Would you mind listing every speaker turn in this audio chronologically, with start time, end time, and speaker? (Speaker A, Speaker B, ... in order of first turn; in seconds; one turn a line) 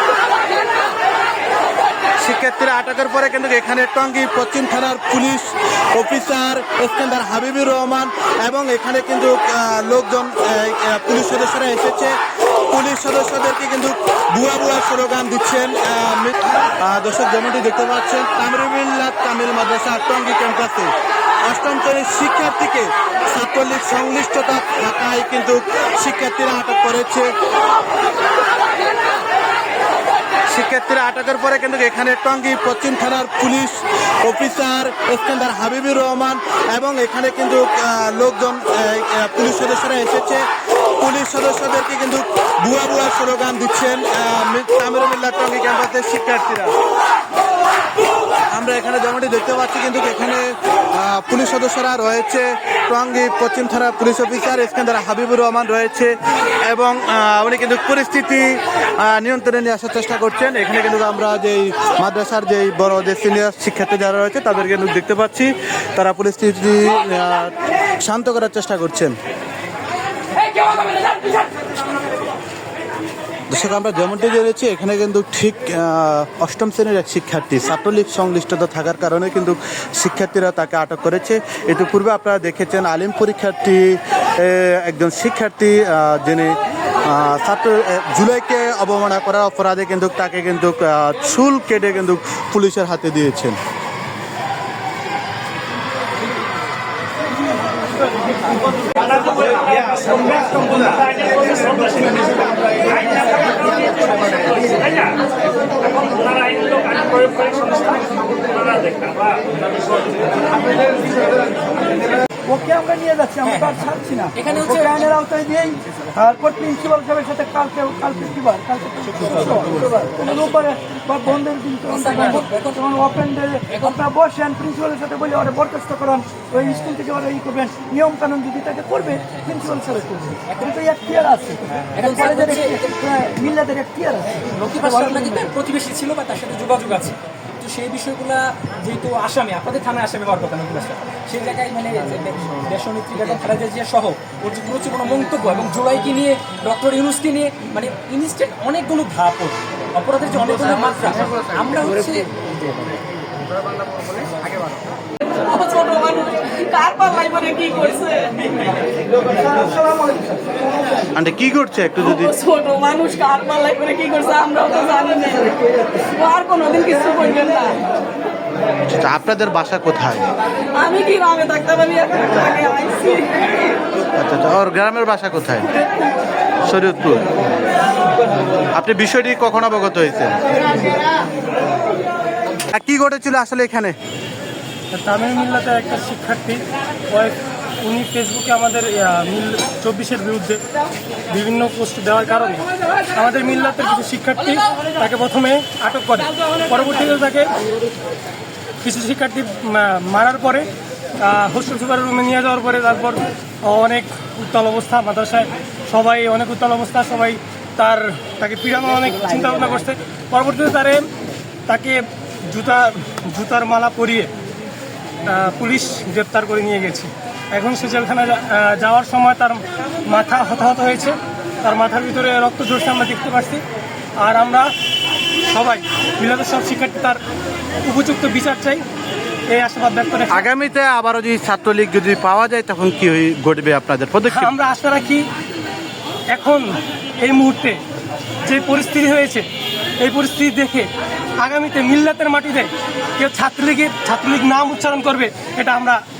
Speaker A: 2.2-12.2
Speaker A: 12.7-20.9
Speaker A: 21.4-27.3
Speaker A: 30.5-40.4
Speaker A: 41.0-46.7
Speaker A: 48.5-56.1
Speaker A: 56.6-69.1
Speaker A: 73.5-93.6
Speaker B: 102.9-105.0
Speaker C: 106.4-108.0
Speaker C: 108.7-109.3
Speaker B: 112.5-135.5
Speaker D: 113.5-113.8
Speaker D: 114.3-115.0
Speaker D: 120.3-120.7
Speaker D: 121.9-123.1
Speaker D: 123.7-124.0
Speaker D: 130.5-130.7
Speaker D: 131.9-132.9
Speaker D: 134.5-152.4
Speaker C: 155.2-158.7
Speaker A: 161.1-162.3
Speaker C: 162.0-167.8
Speaker A: 168.9-170.3
Speaker C: 170.7-173.8
Speaker A: 174.1-175.7
Speaker A: 176.7-177.2
Speaker A: 178.7-180.4
Speaker A: 182.7-183.9
Speaker E: 184.9-190.6
Speaker E: 191.3-197.5
Speaker E: 198.8-200.7
Speaker E: 201.2-211.1
Speaker E: 211.7-214.3
Speaker E: 215.3-223.6
Speaker E: 224.2-224.7
Speaker E: 225.5-227.2
Speaker E: 227.8-228.8
Speaker E: 229.5-230.4
Speaker A: 230.3-234.5
Speaker E: 234.3-235.3
Speaker E: 236.3-237.8
Speaker E: 238.4-239.5
Speaker E: 240.0-246.0